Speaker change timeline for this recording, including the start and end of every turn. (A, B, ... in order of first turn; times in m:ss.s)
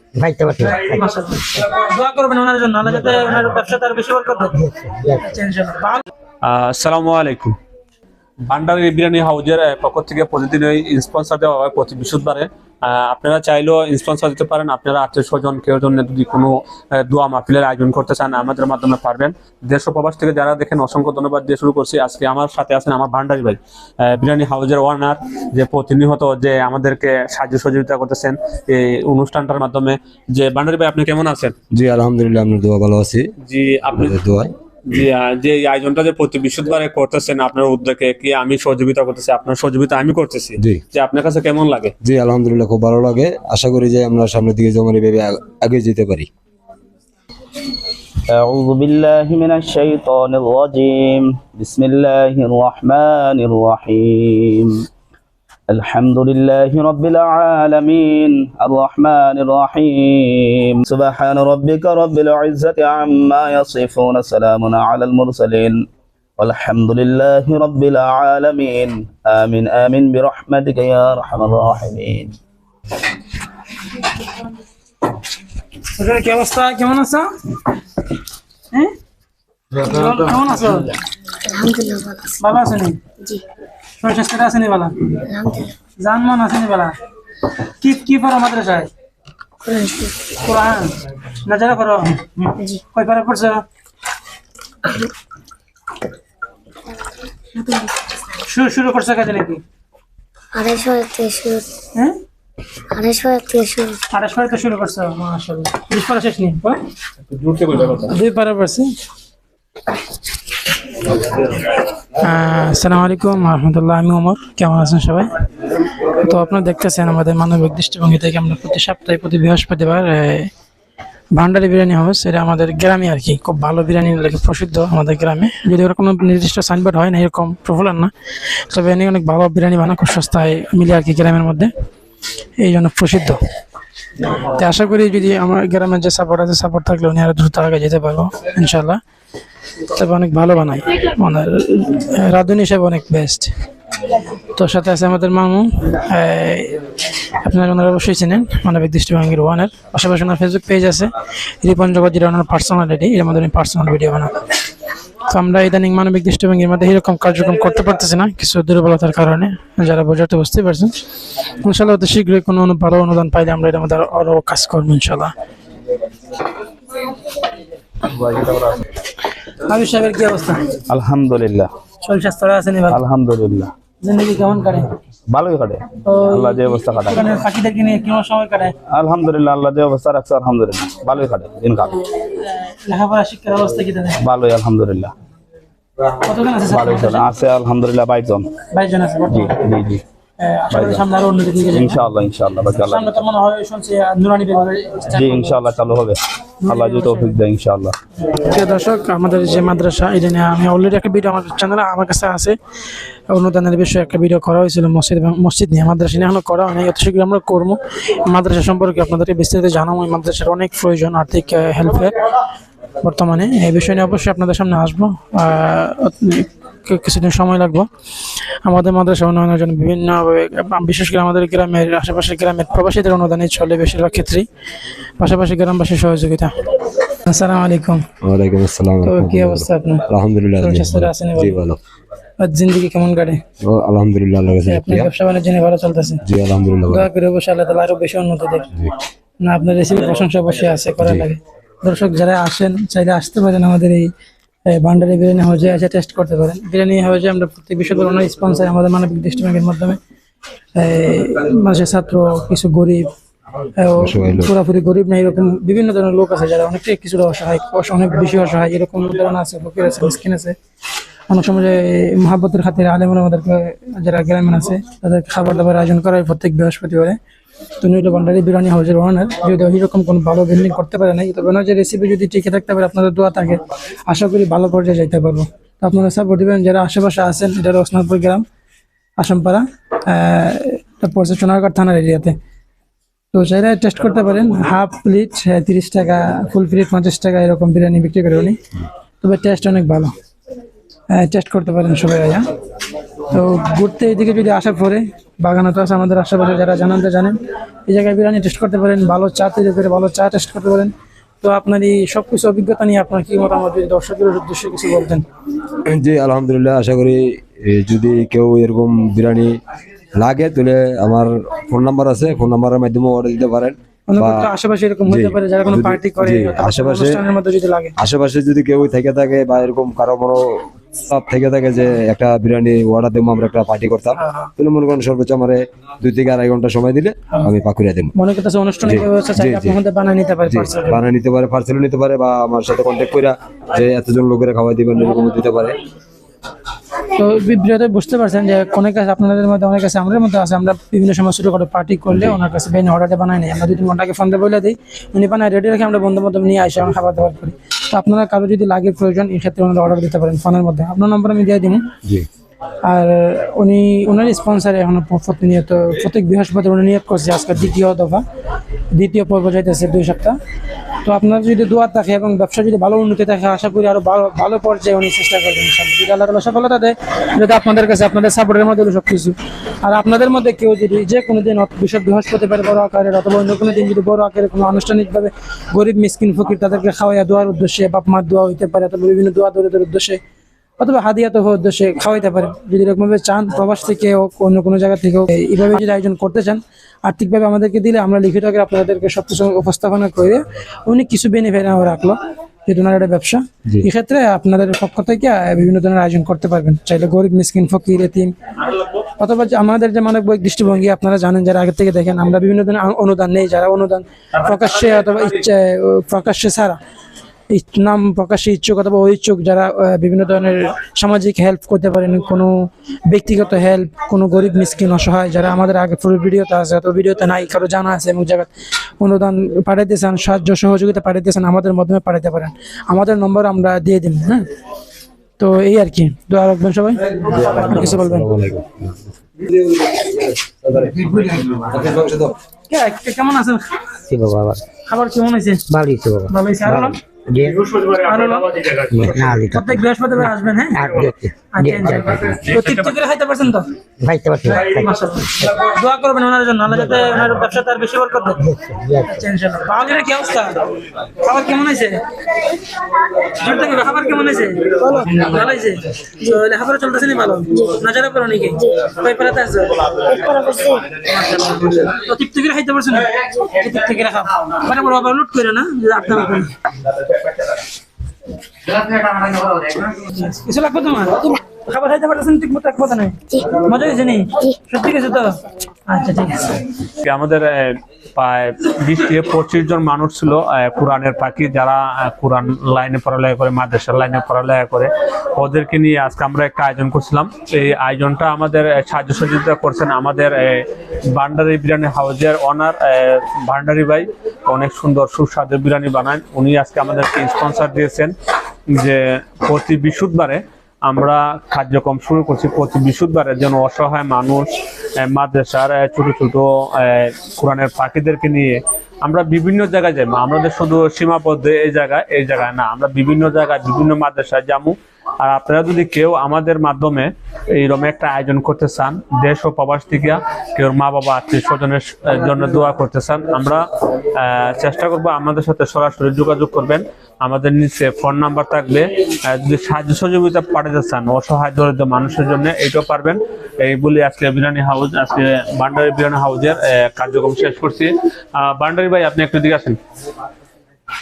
0:00.1-0:01.0 A
0:00.6-0:04.6 B
0:04.6-0:05.2 A
0:05.1-0:06.0 B
0:06.4-0:07.6 C
0:08.4-0:31.5 C
0:31.7-0:33.3 D
0:33.4-0:34.2 C
0:34.0-0:34.5 D
0:34.9-0:41.9 C
0:42.0-0:46.3 D
0:48.3-0:54.8 E
0:55.7-1:05.8 E
1:06.4-1:12.3 E
1:16.0-1:17.3 B
1:19.7-1:20.9 B
1:21.4-1:22.4 F
1:22.4-1:23.0 B
1:24.0-1:25.2 B
1:25.2-1:25.7 F
1:26.0-1:26.9 B
1:27.8-1:28.9 B
1:29.6-1:30.2 F
1:30.3-1:33.6 B
1:37.7-1:39.6 B
1:40.5-1:41.7 F
1:42.9-1:44.0 F
1:44.1-1:46.8 B
1:47.2-1:48.1 C
1:47.9-1:48.9 B
1:52.2-1:55.3 B
1:56.1-2:00.5 B
2:01.3-2:08.1 B
2:08.7-2:11.7 B
2:12.6-2:13.4 B
2:14.4-2:19.0 B
2:19.9-2:23.5 B
2:24.5-2:26.8 B
2:27.4-2:34.3 B
2:35.2-2:40.9 B
2:41.6-2:45.3 B
2:48.1-2:48.8 E
2:49.6-2:50.6 B
2:50.9-2:51.7 E
2:52.0-2:53.0 B
2:52.9-2:53.7 E
2:54.0-2:54.9 B
2:55.3-2:57.2 E
2:56.0-2:58.7 B
2:58.9-3:02.0 E
3:02.5-3:04.2 B
3:04.2-3:05.1 E
3:06.2-3:07.2 B
3:06.7-3:08.5 E
3:08.7-3:09.6 B
3:09.3-3:10.0 E
3:10.4-3:12.0 B
3:10.7-3:11.0 E
3:11.7-3:13.2 E
3:12.8-3:15.6 B
3:15.1-3:18.0 E
3:16.6-3:17.4 B
3:18.3-3:22.6 B
3:23.3-3:32.1 B
3:33.0-3:37.9 B
3:38.6-3:44.5 B
3:45.2-3:46.5 B
3:47.1-3:48.0 B
3:48.2-3:51.8 D
3:49.0-3:50.0 B
3:50.6-3:51.6 B
3:52.4-3:53.4 B
3:53.6-3:55.1 D
3:54.6-3:56.2 B
3:56.2-3:57.1 D
3:56.9-3:58.7 B
3:59.4-4:04.1 B
4:01.0-4:01.3 D
4:04.7-4:10.0 B
4:10.8-4:13.1 B
4:13.8-4:20.6 B
4:14.0-4:14.5 D
4:21.3-4:27.2 B
4:27.8-4:38.4 B
4:39.2-4:42.4 B
4:43.3-4:48.6 B
4:49.2-4:50.1 B
4:51.1-4:52.5 B
4:53.3-4:57.3 B
4:57.8-5:05.2 B
5:05.9-5:09.6 D
5:10.2-5:14.5 D
5:14.1-5:17.9 B
5:15.1-5:17.2 D
5:18.0-5:28.1 D
5:24.2-5:24.5 B
5:28.1-5:31.0 B
5:28.8-5:29.8 D
5:30.5-5:35.8 D
5:37.1-5:51.8 B
5:52.8-5:58.2 B
5:58.9-6:00.4 B
6:01.0-6:20.2 B
6:20.8-6:38.3 B
6:39.0-6:46.8 B
6:47.5-6:58.5 B
6:59.0-7:04.4 B
7:05.4-7:07.0 B
7:07.2-7:12.3 D
7:07.7-7:08.2 B
7:12.7-7:13.6 B
7:14.1-7:14.6 A
7:14.8-7:15.6 B
7:15.7-7:17.6 A
7:16.3-7:17.0 B
7:17.6-7:17.9 C
7:17.9-7:18.6 B
7:18.6-7:18.8 C
7:18.9-7:19.8 A
7:19.3-7:23.6 B
7:20.7-7:22.4 A
7:22.5-7:22.8 C
7:24.0-7:24.8 A
7:24.5-7:28.4 B
7:28.4-7:29.1 A
7:29.0-7:32.0 B
7:33.2-7:40.1 B
7:40.0-7:40.9 F
7:41.0-7:46.5 B
7:49.2-7:56.6 B
7:57.0-8:18.1 C
8:18.7-8:24.5 C
8:25.0-8:59.8 C